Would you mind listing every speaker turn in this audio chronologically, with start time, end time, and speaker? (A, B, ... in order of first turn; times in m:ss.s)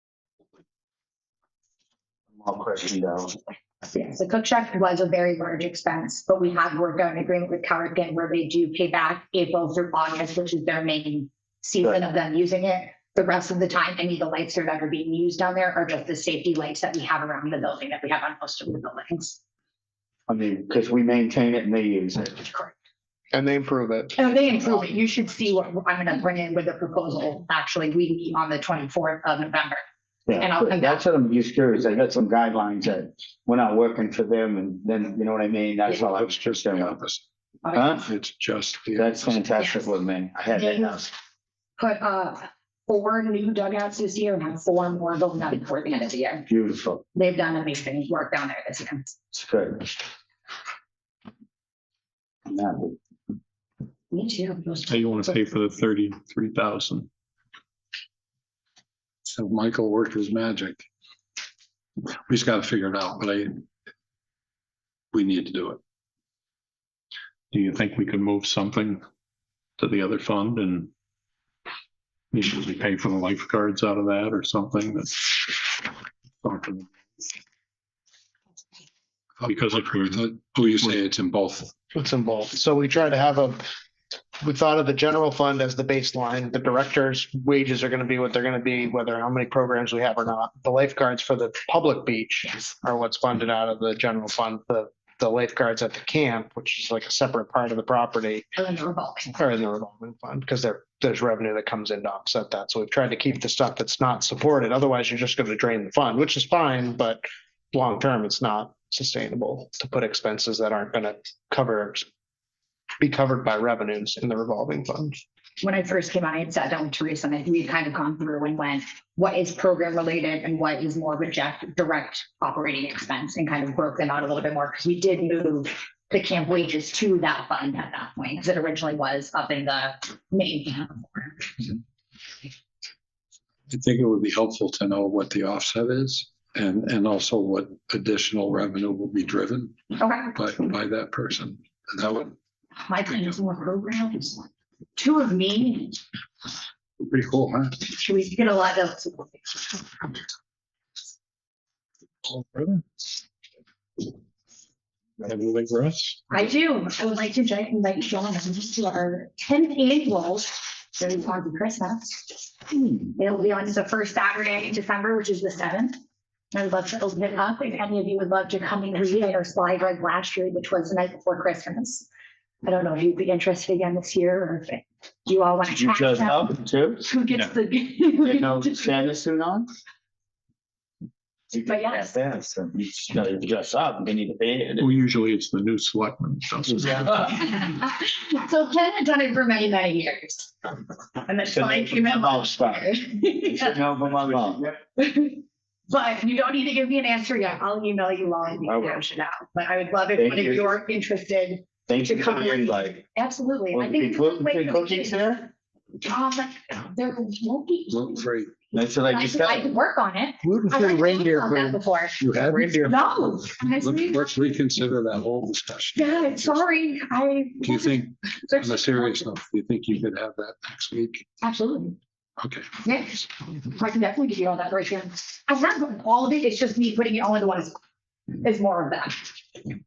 0:02.4-0:03.4 A
0:03.9-0:19.4 B
0:20.3-0:22.5 A
0:23.3-0:24.3 C
0:24.2-0:29.8 B
0:30.3-0:37.0 A
0:30.4-0:31.0 B
0:35.9-0:37.2 D
0:37.6-0:38.1 B
0:37.7-0:38.1 A
0:38.0-0:39.4 D
0:39.0-0:41.1 A
0:40.6-0:40.9 B
0:41.8-0:46.4 B
0:46.5-0:47.0 A
0:47.1-0:49.1 B
0:49.3-0:49.9 A
0:52.5-0:53.0 A
0:54.1-0:55.4 B
0:54.9-0:57.1 E
0:59.3-1:00.9 D
1:02.3-1:03.6 D
1:05.1-1:05.8 D
1:07.5-1:09.0 E
1:09.8-1:10.9 E
1:12.3-1:15.9 E
1:16.4-1:16.9 E
1:19.4-1:21.7 D
1:19.5-1:21.0 E
1:22.0-1:23.6 C
1:24.4-1:38.5 C
1:38.6-1:39.4 B
1:39.4-1:52.1 C
1:53.0-1:55.2 C
1:55.6-2:11.8 B
2:13.7-2:22.4 D
2:20.0-2:20.3 B
2:22.9-2:24.4 B
2:25.0-2:26.0 B
2:27.0-2:27.8 D
2:27.9-2:29.8 B
2:32.3-2:32.8 E
2:35.2-2:36.2 E
2:36.3-2:42.4 B
2:43.2-2:46.0 B
2:46.5-2:52.1 B
2:52.6-2:56.5 B
2:55.7-2:57.0 A
2:57.0-2:58.9 B
2:58.2-2:59.7 A
3:01.5-3:04.9 A
3:01.6-3:02.1 B
3:04.8-3:07.3 E
3:06.7-3:07.0 A
3:07.3-3:10.7 B
3:11.2-3:13.8 B
3:11.5-3:12.9 A
3:13.5-3:14.7 A
3:15.0-3:25.4 B
3:18.7-3:19.0 A
3:20.2-3:20.8 A
3:21.9-3:23.0 A
3:23.7-3:25.4 A
3:26.0-3:28.2 B
3:27.9-3:28.5 D
3:28.7-3:29.7 A
3:28.8-3:32.2 B
3:30.4-3:31.8 C
3:32.2-3:33.0 D
3:32.4-3:32.9 C
3:32.8-3:34.4 B
3:33.8-3:36.6 D
3:36.0-3:39.3 B
3:37.6-3:41.2 D
3:41.4-3:42.0 B
3:42.4-3:42.7 D
3:42.8-3:47.8 B
3:48.3-3:49.6 B